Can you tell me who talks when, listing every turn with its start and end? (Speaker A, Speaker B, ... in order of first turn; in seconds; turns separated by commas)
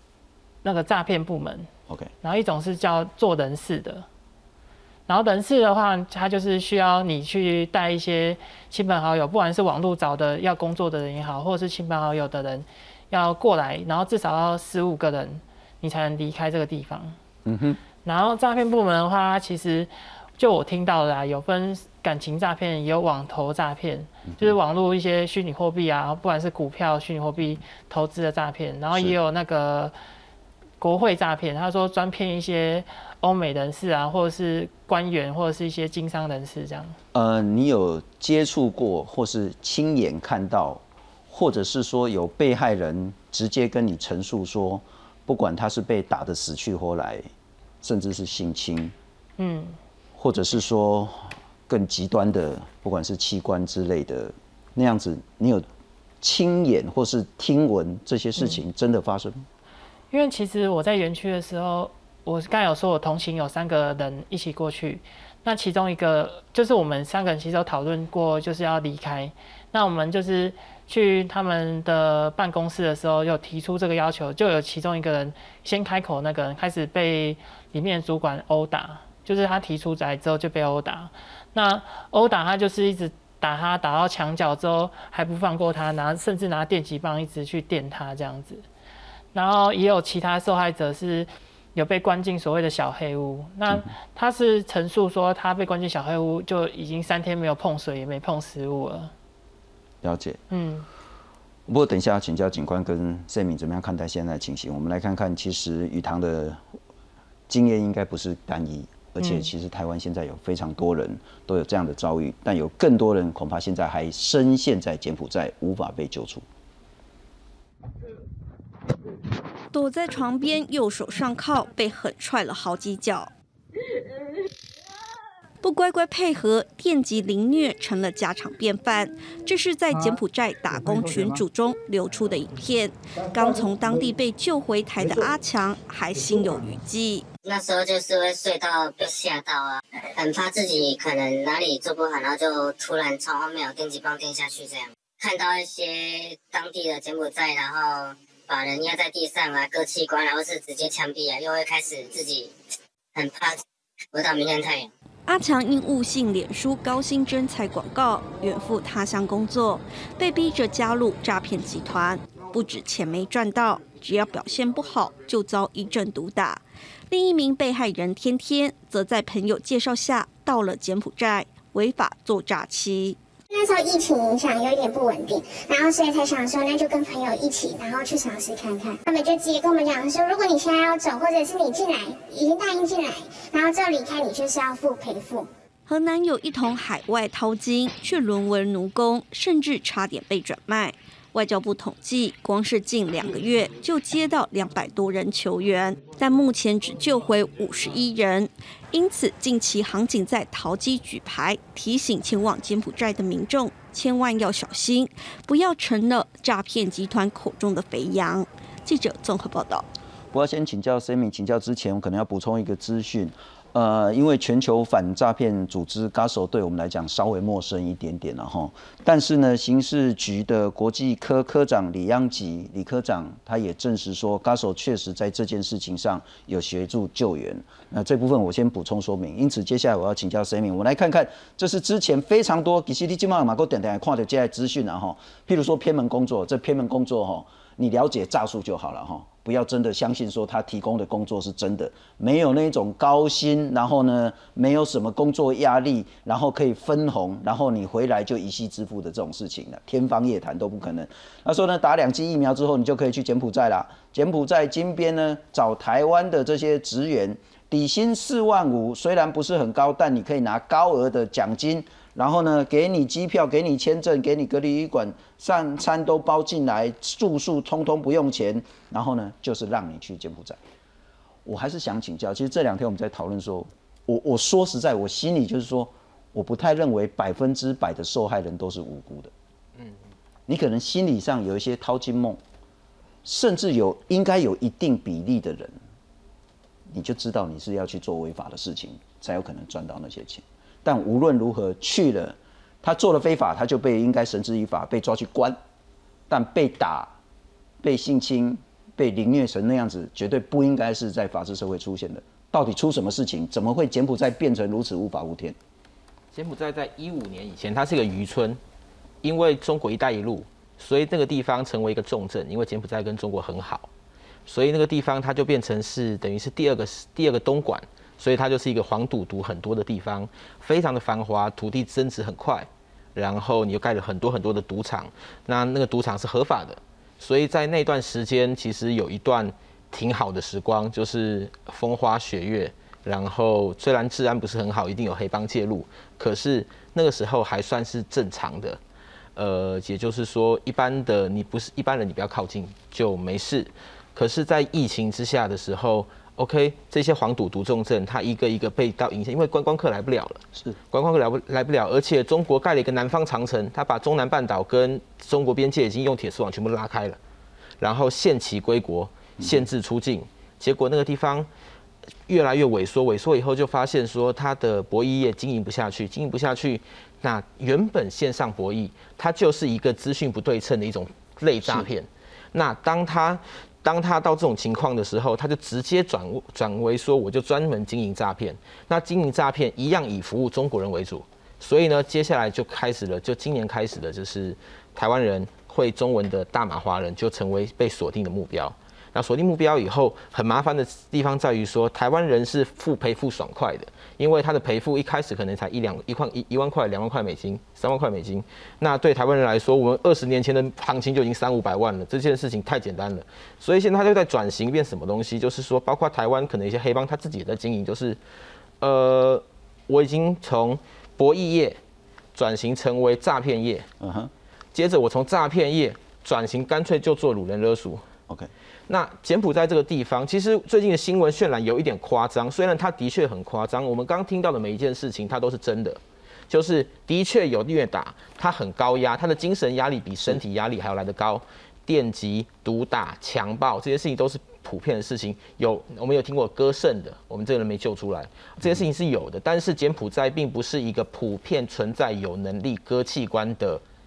Speaker A: 0.6-1.7, Speaker A: 2.2-4.0, Speaker A: 5.1-17.1, Speaker B: 17.4-17.8, Speaker A: 18.0-29.9, Speaker B: 24.3-24.5, Speaker A: 30.8-36.9, Speaker B: 37.1-47.2, Speaker B: 47.8-48.9, Speaker A: 49.4-49.8, Speaker B: 50.1-55.6, Speaker B: 56.2-59.5, Speaker A: 60.1-88.6, Speaker A: 89.3-99.1, Speaker B: 100.0-100.4, Speaker A: 100.5-100.9, Speaker B: 101.7-106.6, Speaker B: 107.5-116.4, Speaker A: 109.2-109.5, Speaker C: 119.7-123.3, Speaker C: 125.6-137.2, Speaker D: 137.4-152.5, Speaker D: 153.1-154.9, Speaker C: 155.3-173.2, Speaker E: 173.5-185.5, Speaker C: 185.9-209.9, Speaker B: 210.3-270.6, Speaker B: 271.4-279.3, Speaker B: 280.5-282.4, Speaker B: 283.2-285.7, Speaker B: 286.9-295.6, Speaker B: 296.3-297.1, Speaker B: 297.8-305.6, Speaker F: 306.3-308.6, Speaker F: 309.2-313.9, Speaker F: 314.5-338.8, Speaker F: 339.4-357.2, Speaker F: 357.8-361.5, Speaker B: 359.4-359.7, Speaker F: 362.3-408.2, Speaker F: 408.8-411.8, Speaker F: 412.3-413.9, Speaker B: 414.0-414.3, Speaker F: 414.7-418.0, Speaker F: 418.9-443.8